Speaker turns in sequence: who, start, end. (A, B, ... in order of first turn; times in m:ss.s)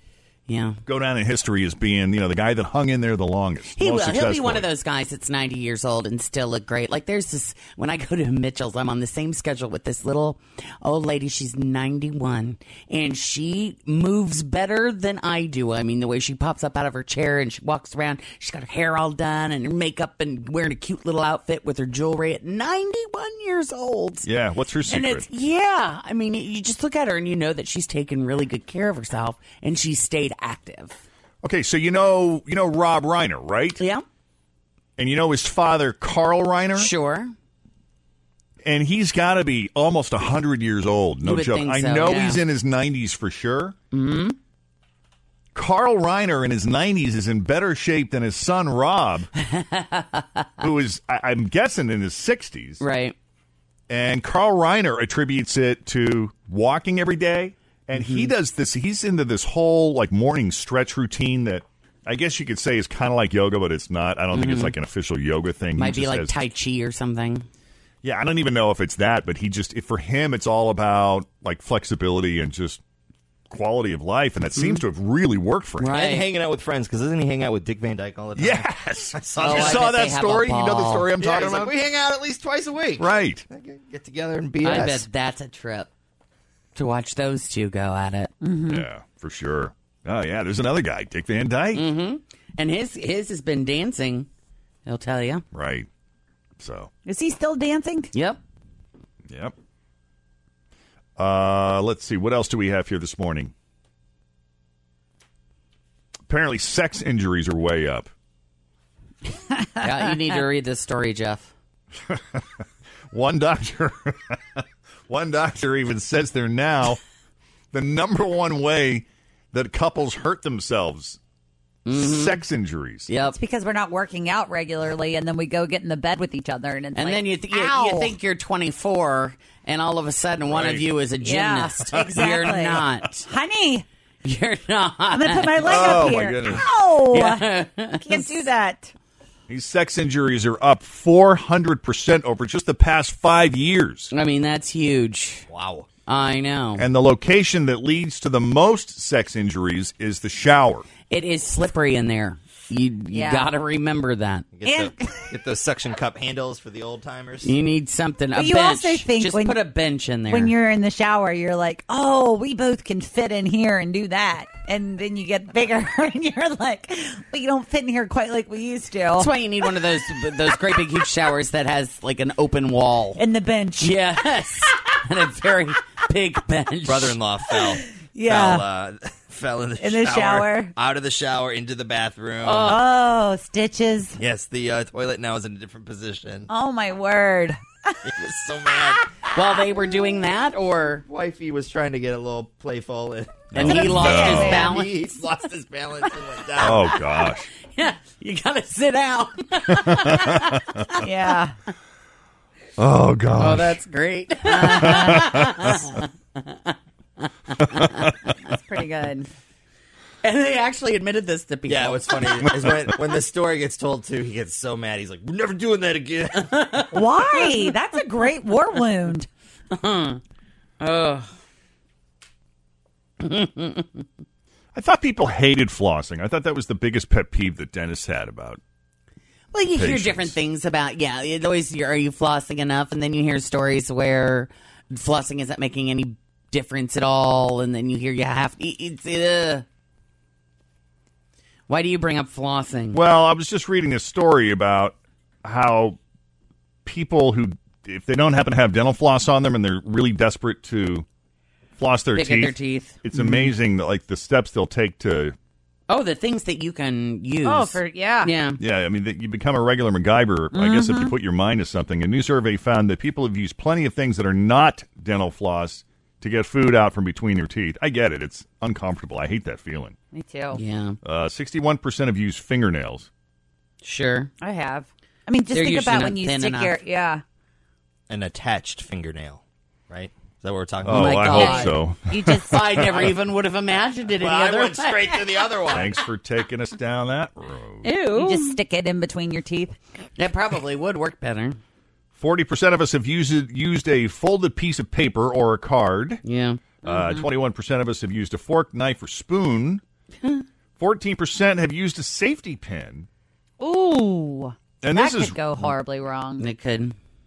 0:00.5-0:00.8 A
0:00.9-0:04.7 B
0:03.8-0:24.3 A
0:24.2-0:25.3 B
0:24.9-0:31.0 A
0:31.4-0:33.8 B
0:33.8-0:34.0 A
0:35.0-0:36.9 B
0:36.8-0:37.3 A
0:38.6-0:43.8 B
0:41.2-0:42.4 A
0:43.9-0:44.4 A
0:45.6-0:49.3 B
0:49.5-0:50.1 A
0:50.6-0:52.8 B
0:52.8-0:53.2 A
0:53.9-1:06.4 B
0:58.0-0:58.3 A
1:04.3-1:04.7 A
1:05.8-1:07.5 A
1:08.0-1:12.8 B
1:13.5-1:16.0 B
1:14.6-1:14.8 A
1:15.8-1:16.3 A
1:15.9-1:20.1 C
1:18.4-1:21.8 B
1:19.4-1:21.1 A
1:21.2-1:25.1 C
1:23.0-1:23.5 B
1:24.6-1:25.9 A
1:26.8-1:28.3 A
1:28.4-1:28.9 D
1:28.7-1:31.9 B
1:31.7-1:34.3 A
1:34.9-1:35.4 A
1:35.5-1:35.9 B
1:36.6-1:36.9 B
1:37.0-1:38.1 D
1:38.1-1:38.4 A
1:41.2-1:43.5 B
1:46.3-1:48.1 B
1:49.8-1:51.5 A
1:52.1-1:57.0 B
1:57.7-2:01.2 B
2:01.9-2:02.4 A
2:01.9-2:03.1 B
2:03.1-2:03.4 A
2:03.3-2:08.1 D
2:07.0-2:13.3 A
2:10.4-2:11.0 B
2:11.2-2:13.9 D
2:14.2-2:18.4 A
2:15.1-2:18.9 D
2:15.6-2:16.7 B
2:19.5-2:24.1 B
2:24.1-2:25.5 A
2:25.5-2:25.9 C
2:26.1-2:26.8 A
2:26.8-2:30.8 B
2:31.1-2:34.5 A
2:33.1-2:33.5 D
2:34.5-2:37.5 C
2:34.7-2:35.3 D
2:37.4-2:40.5 A
2:38.4-2:39.6 D
2:40.3-2:49.3 D
2:49.2-2:53.2 A
2:53.2-2:53.9 D
2:53.8-2:57.2 A
2:56.9-3:02.8 C
2:58.1-2:58.6 D
2:59.8-3:00.7 D
3:02.4-3:02.8 A
3:02.6-3:04.2 D
3:04.2-3:06.5 C
3:06.5-3:07.9 D
3:08.1-3:09.0 C
3:09.3-3:11.0 A
3:11.1-3:17.0 C
3:13.5-3:14.4 B
3:13.6-3:15.0 A
3:13.7-3:14.7 D
3:16.6-3:17.5 B
3:16.8-3:21.0 A
3:19.8-3:20.6 B
3:21.0-3:21.6 D
3:22.8-3:23.8 B
3:23.4-3:26.7 A
3:24.5-3:25.7 B
3:24.8-3:25.2 D
3:27.6-3:28.1 A
3:28.4-3:29.3 D
3:30.2-3:32.5 A
3:31.7-3:36.5 C
3:36.5-3:37.7 A
3:36.9-3:39.3 D
3:39.7-3:40.2 A
3:40.8-3:41.3 A
3:43.2-3:43.9 A
3:44.8-3:48.6 B
3:49.5-3:59.6 A
3:49.8-3:50.4 B
4:01.7-4:03.0 A
4:02.9-4:06.0 B
4:06.8-4:11.1 B
4:11.8-4:15.4 B
4:12.2-4:13.5 A
4:15.9-4:18.6 A
4:17.4-4:18.3 D
4:18.6-4:30.0 B
4:20.5-4:21.1 D
4:30.1-4:30.6 D
4:30.5-4:31.0 A
4:31.0-4:33.1 B
4:33.8-4:34.3 A
4:34.4-4:37.2 D
4:35.5-4:36.8 A
4:38.1-4:41.5 C
4:40.8-4:43.1 B
4:40.9-4:41.8 A
4:41.2-4:42.6 D
4:42.5-4:45.9 A
4:44.2-4:46.0 C
4:45.7-4:47.9 B
4:47.8-4:48.6 A
4:48.1-4:49.8 D
4:50.2-4:51.6 A
4:52.1-4:56.2 B
4:56.2-4:57.2 A
4:56.8-4:59.8 B
5:00.8-5:03.1 B
5:03.6-5:06.5 D
5:04.8-5:05.7 B
5:06.4-5:07.0 A